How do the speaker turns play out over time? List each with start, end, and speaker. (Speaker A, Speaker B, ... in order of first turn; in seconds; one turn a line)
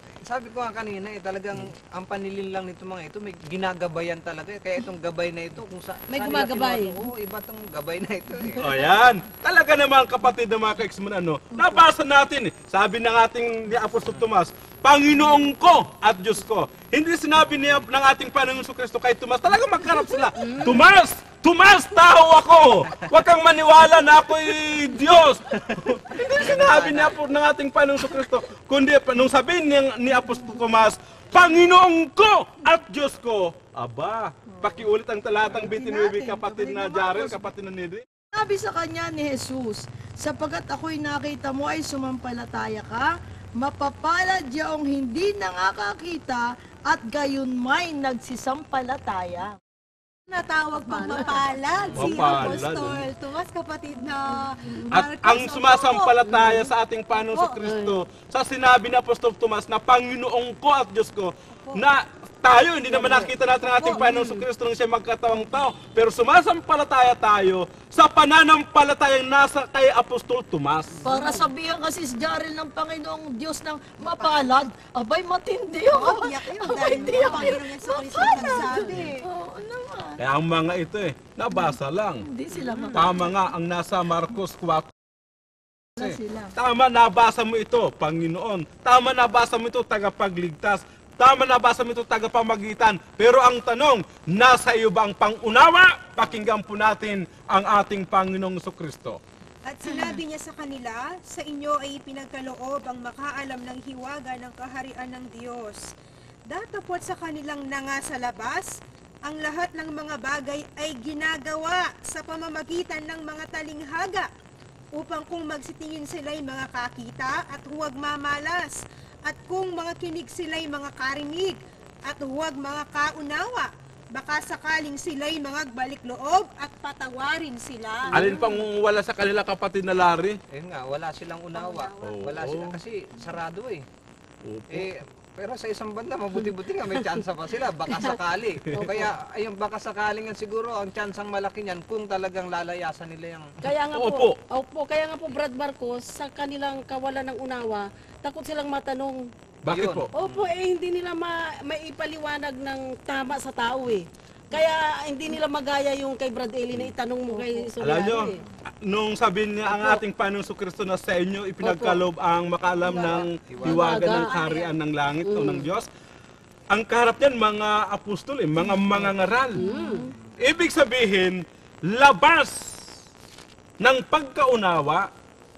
Speaker A: 0.2-8.6
Speaker B: 6.2-7.0
Speaker C: 8.6-38.0
Speaker D: 11.5-11.8
Speaker B: 20.4-20.8
Speaker A: 26.3-27.2
Speaker D: 34.5-34.8
Speaker D: 35.5-37.4
Speaker D: 38.3-49.5
Speaker E: 50.3-56.1
Speaker D: 50.9-51.4
Speaker A: 51.8-52.3
Speaker C: 51.9-53.0
Speaker C: 54.9-71.0
Speaker B: 56.2-56.7
Speaker E: 57.1-57.6
Speaker B: 57.6-58.0
Speaker B: 62.9-63.3
Speaker B: 63.8-64.4
Speaker E: 71.0-71.4
Speaker D: 71.0-80.2
Speaker E: 74.1-74.5
Speaker E: 75.9-79.2
Speaker C: 80.2-82.2
Speaker D: 82.2-83.3
Speaker B: 82.5-82.9
Speaker C: 82.9-84.9
Speaker D: 86.0-86.5
Speaker C: 86.0-99.2
Speaker E: 99.6-105.9
Speaker E: 106.5-114.3
Speaker E: 114.9-118.7
Speaker E: 119.2-128.2
Speaker B: 128.1-128.6
Speaker C: 128.1-130.4
Speaker A: 130.5-133.8
Speaker E: 131.5-132.0
Speaker C: 132.0-132.8
Speaker C: 134.4-134.9
Speaker A: 134.7-143.6
Speaker B: 137.9-138.2
Speaker B: 138.7-139.0
Speaker B: 143.6-149.2
Speaker C: 143.9-144.4
Speaker C: 149.6-150.1
Speaker A: 149.7-150.5
Speaker B: 150.1-158.4
Speaker C: 157.8-165.9
Speaker B: 159.7-160.0
Speaker B: 161.6-162.0
Speaker A: 162.8-164.1
Speaker B: 163.6-164.3
Speaker E: 163.8-164.7
Speaker B: 165.2-165.7
Speaker C: 166.7-169.7
Speaker A: 168.9-169.4
Speaker B: 169.5-170.1
Speaker D: 169.6-170.1
Speaker C: 170.4-172.8
Speaker C: 173.8-175.1